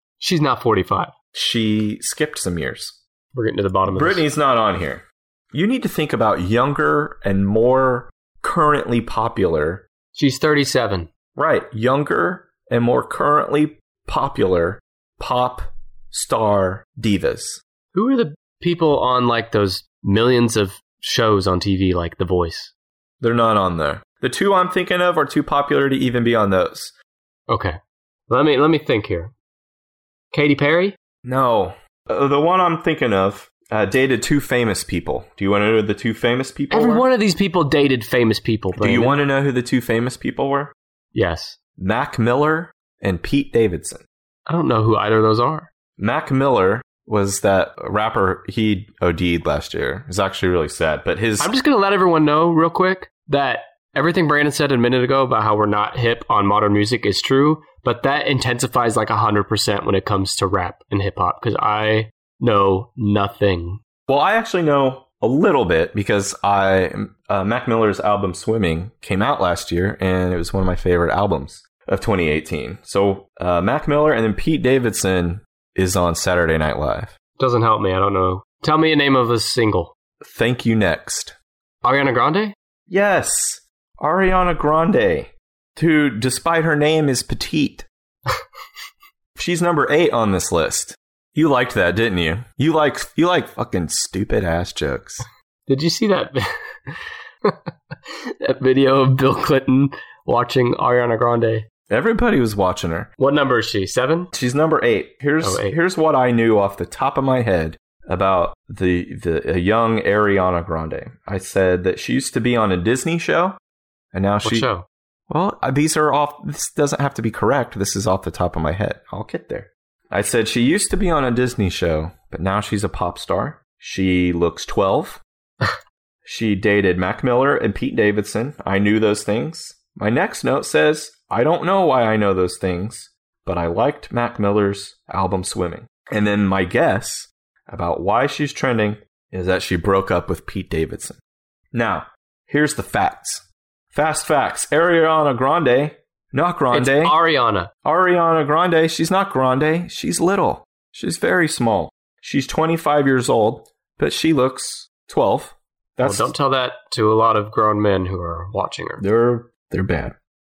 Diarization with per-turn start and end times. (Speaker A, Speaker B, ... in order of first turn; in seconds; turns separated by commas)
Speaker A: 0.2-1.1, Speaker B: 1.3-3.0, Speaker A: 3.3-4.2, Speaker B: 3.9-9.8, Speaker A: 10.1-11.1, Speaker B: 11.4-17.6, Speaker A: 17.9-22.7, Speaker B: 23.2-26.9, Speaker A: 27.5-27.8, Speaker A: 28.3-29.3, Speaker A: 30.3-31.0, Speaker B: 31.2-37.1, Speaker A: 36.7-39.2, Speaker B: 38.7-40.7, Speaker A: 41.1-41.6, Speaker B: 41.8-44.0, Speaker A: 44.5-45.7, Speaker B: 46.0-51.5, Speaker A: 51.4-63.8, Speaker B: 64.1-77.2, Speaker A: 77.4-79.9, Speaker B: 80.2-81.4, Speaker A: 81.8-82.5, Speaker B: 82.9-87.9, Speaker B: 89.4-95.2, Speaker A: 95.7-101.7, Speaker B: 101.9-103.1, Speaker A: 103.2-104.3, Speaker B: 104.3-113.6, Speaker A: 105.4-105.8, Speaker B: 114.1-114.7, Speaker A: 114.4-114.9, Speaker B: 115.3-125.2, Speaker B: 126.2-141.2, Speaker B: 141.7-147.2, Speaker A: 146.7-147.7, Speaker B: 147.8-156.3, Speaker A: 156.0-159.0, Speaker B: 159.0-160.2